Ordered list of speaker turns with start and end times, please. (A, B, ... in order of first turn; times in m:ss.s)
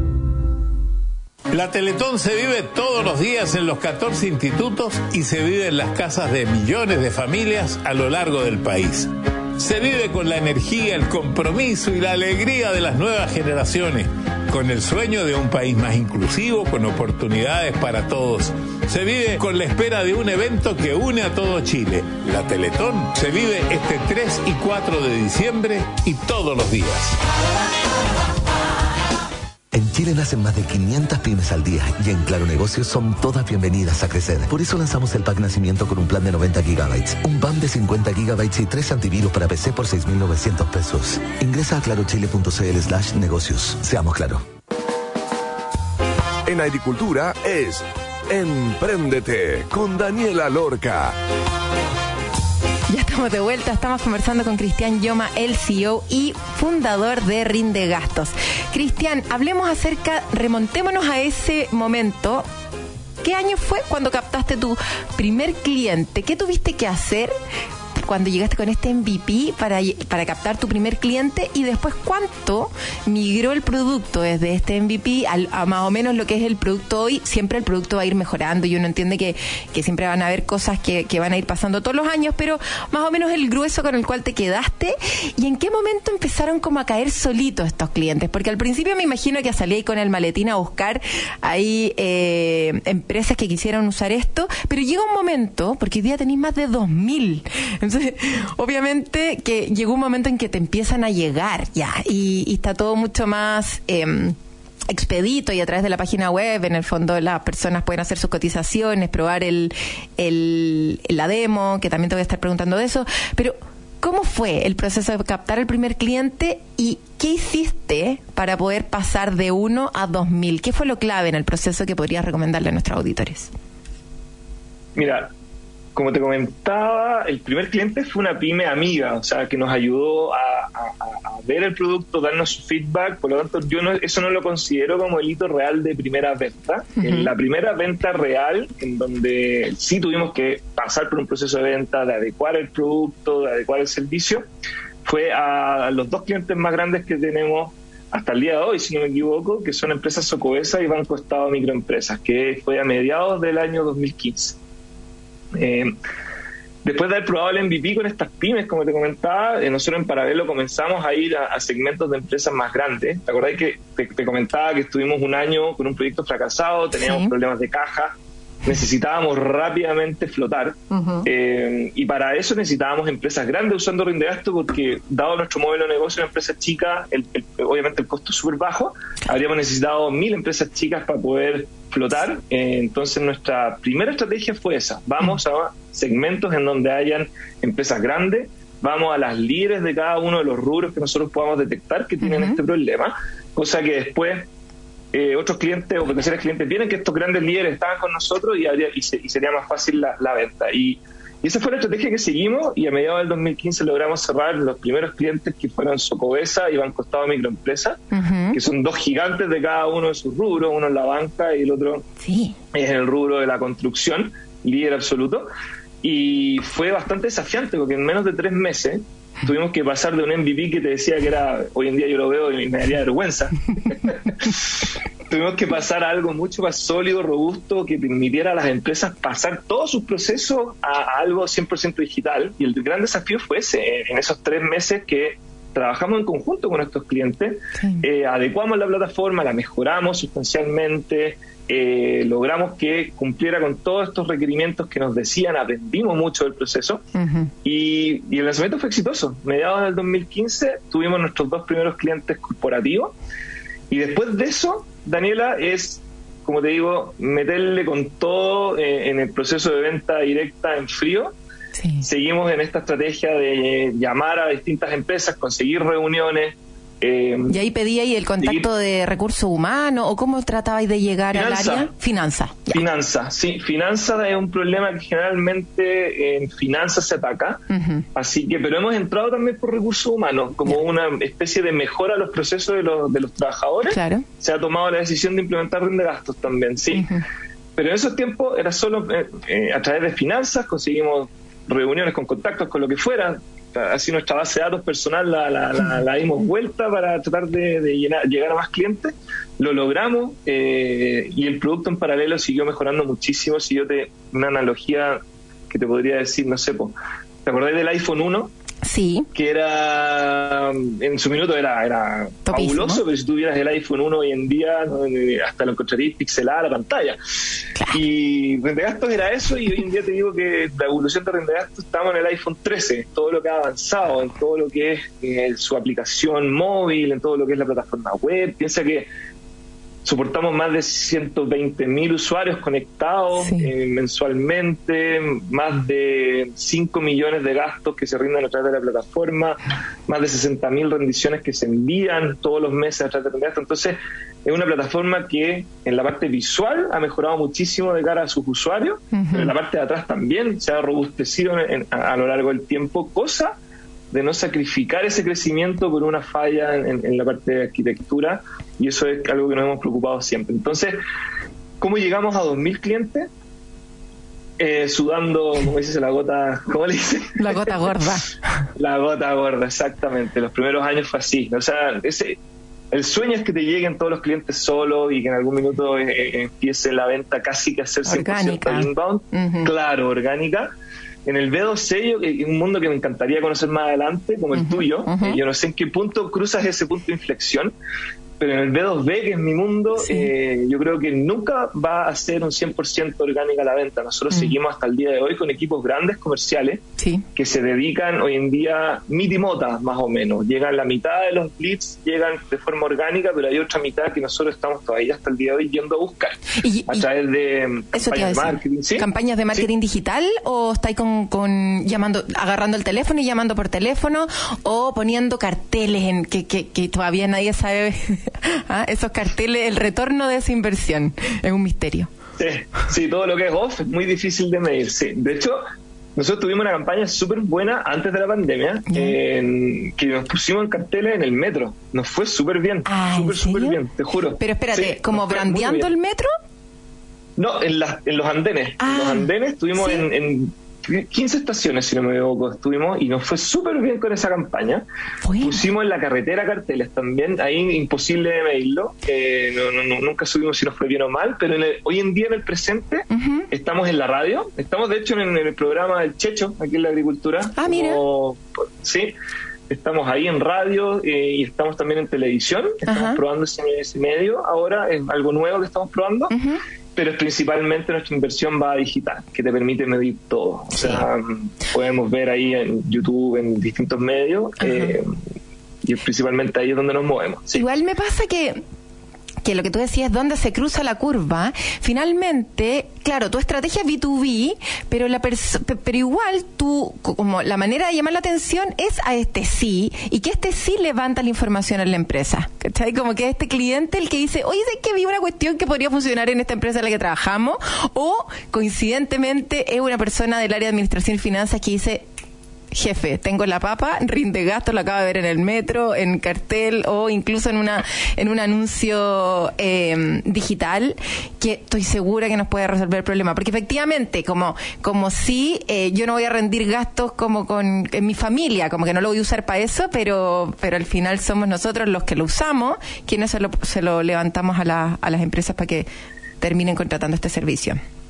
0:01.5-0:27.2 A
0:29.7-0:44.4 B
0:46.4-0:51.2 C
0:52.9-1:02.5 D
1:03.2-1:07.3 D
1:08.0-1:44.4 D
1:44.9-2:03.5 D
2:05.0-2:05.3 E
2:06.0-2:24.4 E
2:17.0-2:17.3 D
2:25.0-2:34.6 E
2:35.5-2:35.9 E
2:36.8-3:14.5 E
2:46.9-2:47.3 D
2:50.9-2:51.3 D
3:12.2-3:12.6 D
3:15.1-3:28.0 E
3:28.1-3:28.6 D
3:28.5-3:32.1 E
3:32.2-3:32.6 D
3:32.7-3:35.5 E
3:36.0-3:44.7 E
3:45.3-4:07.0 E
3:57.8-3:58.1 D
4:07.2-4:07.5 D
4:07.6-4:13.1 E
4:13.9-4:21.3 E
4:21.8-4:22.1 D
4:22.0-4:27.6 E
4:27.5-4:32.8 D
4:28.4-4:28.7 E
4:31.3-4:31.9 E
4:32.7-4:37.6 E
4:37.7-4:38.1 D
4:38.2-4:47.1 E
4:43.9-4:44.2 D
4:46.9-4:47.2 D
4:47.8-5:08.5 E
5:08.8-5:09.3 D
5:09.4-5:17.2 E
5:12.5-5:13.0 D
5:17.9-5:29.1 E
5:30.0-5:53.6 E
5:33.4-5:33.7 D
5:49.1-5:49.5 D
5:54.1-6:01.0 E
6:01.8-6:03.3 E
6:04.6-6:07.9 E
6:07.4-6:08.3 D
6:08.8-6:12.4 E
6:12.9-6:20.7 E
6:18.1-6:19.7 D
6:21.2-6:27.7 E
6:24.5-6:25.4 D
6:28.4-6:36.8 E
6:30.0-6:30.3 D
6:37.0-6:37.2 D
6:37.4-6:49.7 E
6:46.6-6:47.1 D
6:47.9-7:02.1 D
7:02.4-7:05.6 E
7:06.2-7:15.9 E
7:08.9-7:09.2 D
7:12.9-7:13.8 D
7:14.4-7:16.3 D
7:17.4-7:24.8 E
7:18.8-7:20.1 D
7:25.2-7:25.6 D
7:25.4-7:39.1 E
7:33.1-7:33.5 D
7:37.6-7:38.0 D
7:39.7-7:46.3 E
7:42.9-7:43.2 D
7:46.3-7:46.6 D
7:47.0-7:55.1 E
7:50.7-7:51.1 D
7:54.6-7:55.0 D
7:55.8-7:57.6 E
7:57.5-7:58.6 D
7:59.4-8:22.0 D
8:22.7-8:45.9 D
8:46.4-8:47.8 D